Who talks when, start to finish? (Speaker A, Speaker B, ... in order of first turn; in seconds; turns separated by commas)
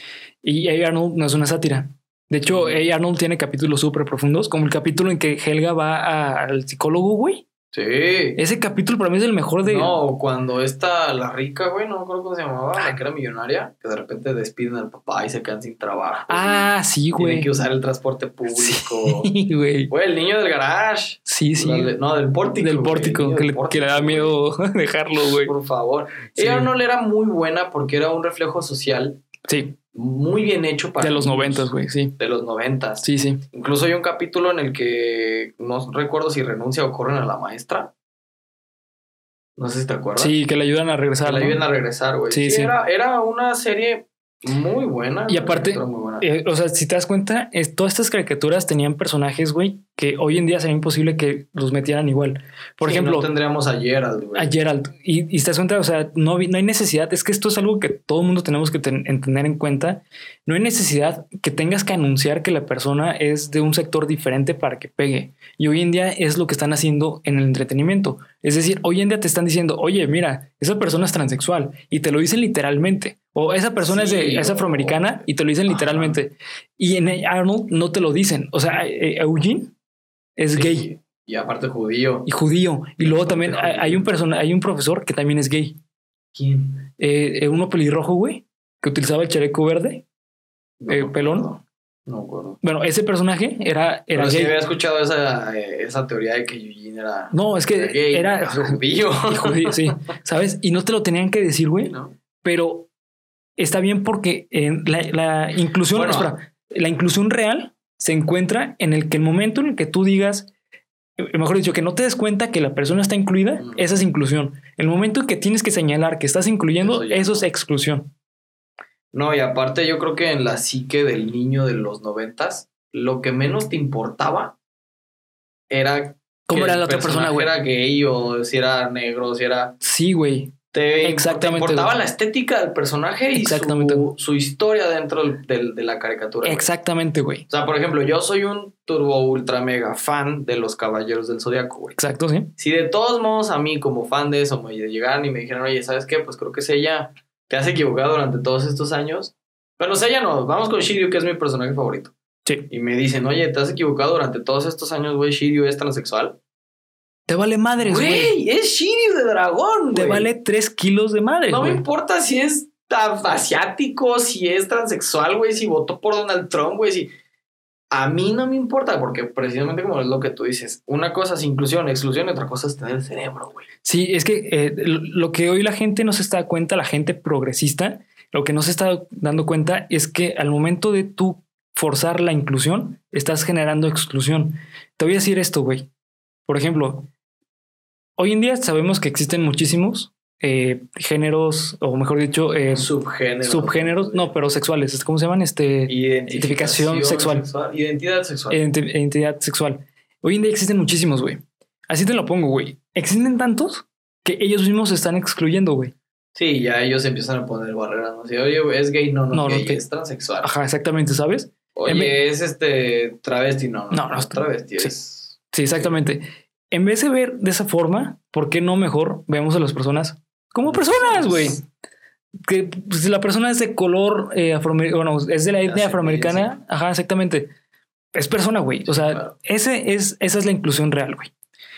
Speaker A: 0.4-7.4, Speaker B: 2.5-2.8, Speaker B: 7.7-8.4, Speaker A: 8.3-10.0, Speaker B: 9.6-19.3, Speaker A: 16.3-17.5, Speaker A: 18.5-19.9, Speaker B: 19.9-24.4, Speaker A: 21.2-21.9, Speaker A: 22.6-25.5, Speaker B: 25.2-29.2, Speaker A: 26.3-26.7, Speaker A: 29.5-29.8, Speaker B: 29.9-37.9, Speaker A: 31.0-32.1, Speaker A: 33.0-33.4, Speaker B: 39.6-40.4, Speaker A: 40.2-41.6, Speaker B: 41.2-46.2, Speaker A: 42.3-42.7, Speaker A: 45.3-53.3, Speaker B: 52.8-54.5, Speaker A: 54.3-79.7, Speaker B: 73.8-76.2, Speaker A: 80.4-80.9, Speaker B: 80.5-82.3, Speaker A: 82.2-85.8, Speaker B: 83.0-84.1, Speaker B: 86.3-86.8, Speaker A: 87.0-90.0, Speaker B: 90.8-92.6, Speaker A: 90.9-91.5, Speaker A: 92.6-94.6, Speaker B: 94.1-99.9, Speaker A: 97.3-102.9, Speaker B: 101.8-102.1, Speaker A: 103.6-110.5, Speaker B: 105.9-106.3, Speaker A: 111.2-118.1, Speaker B: 113.6-113.8, Speaker B: 116.8-117.5, Speaker B: 119.1-124.6, Speaker B: 125.7-129.8, Speaker A: 126.5-127.5, Speaker A: 129.8-131.9, Speaker B: 130.7-136.7, Speaker A: 133.3-134.1, Speaker A: 136.4-137.5, Speaker B: 137.5-142.0, Speaker A: 141.9-142.5, Speaker B: 142.6-152.1, Speaker B: 152.7-156.4, Speaker A: 157.3-158.3, Speaker B: 157.8-160.3, Speaker A: 159.9-161.8, Speaker B: 161.5-167.1, Speaker B: 167.9-173.7, Speaker A: 173.8-185.9, Speaker A: 186.5-187.1, Speaker A: 188.2-192.9, Speaker B: 192.7-194.3, Speaker A: 193.4-197.5, Speaker B: 195.9-198.6, Speaker A: 198.5-205.9, Speaker B: 206.3-210.5, Speaker A: 209.3-209.8, Speaker A: 210.4-212.2, Speaker B: 211.8-215.9, Speaker A: 213.9-214.9, Speaker A: 215.5-221.7, Speaker B: 220.7-221.6, Speaker A: 222.4-227.5, Speaker B: 225.6-226.6, Speaker A: 228.1-231.3, Speaker B: 228.8-229.3